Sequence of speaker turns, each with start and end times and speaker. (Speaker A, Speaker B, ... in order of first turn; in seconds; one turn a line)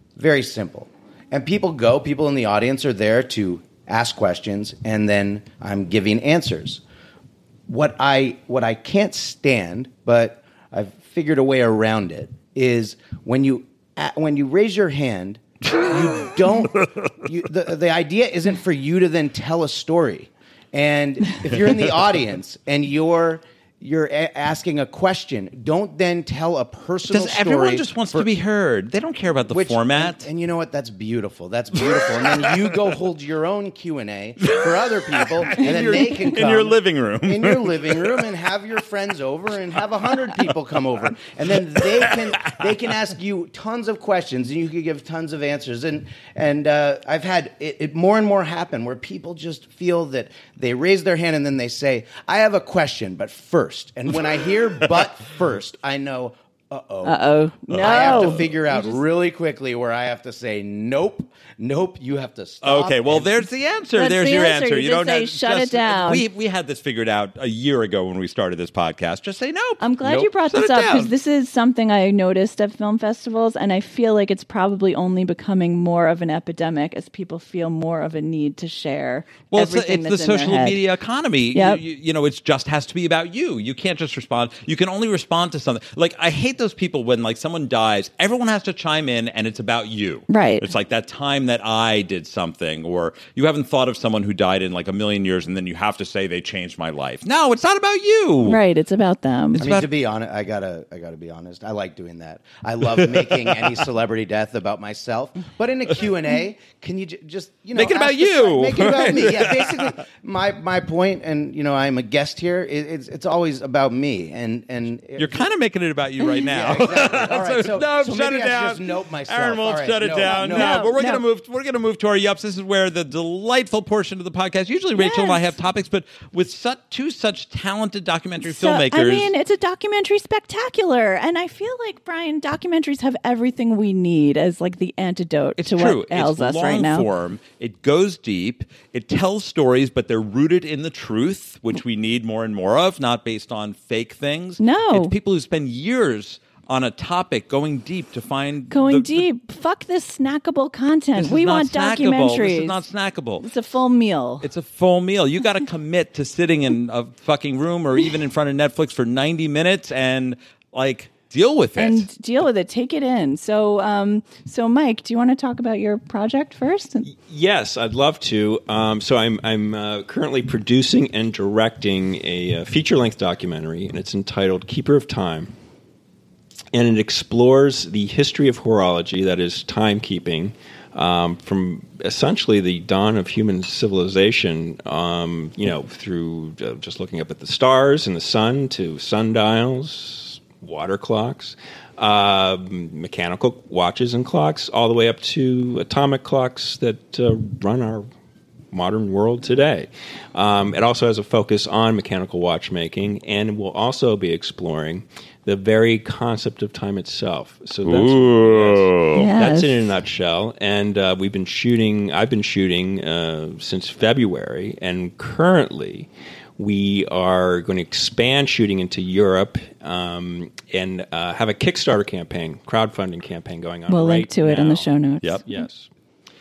Speaker A: 0.1-6.8
Speaker A: 7.7-28.3
Speaker B: 27.1-30.3
Speaker A: 29.5-63.3
Speaker B: 35.4-38.1
Speaker C: 57.0-59.0
Speaker B: 57.7-58.4
Speaker B: 62.6-71.1
Speaker C: 64.0-66.2
Speaker C: 69.8-80.8
Speaker B: 79.5-98.6
Speaker C: 81.5-81.8
Speaker C: 90.3-90.7
Speaker C: 98.4-99.6
Speaker B: 99.5-99.9
Speaker A: 99.6-115.4
Speaker B: 107.7-109.9
Speaker B: 115.2-129.3
Speaker A: 116.5-120.9
Speaker C: 120.2-121.2
Speaker C: 124.9-125.5
Speaker C: 128.4-137.1
Speaker B: 135.6-149.2
Speaker C: 144.6-145.1
Speaker C: 148.7-152.8
Speaker B: 151.2-153.4
Speaker C: 153.4-154.5
Speaker B: 154.4-162.1
Speaker C: 161.8-167.1
Speaker D: 167.0-175.5
Speaker D: 176.7-198.1
Speaker D: 198.7-224.9
Speaker B: 207.8-209.2
Speaker C: 209.1-209.9
Speaker C: 223.9-225.7
Speaker D: 225.4-225.9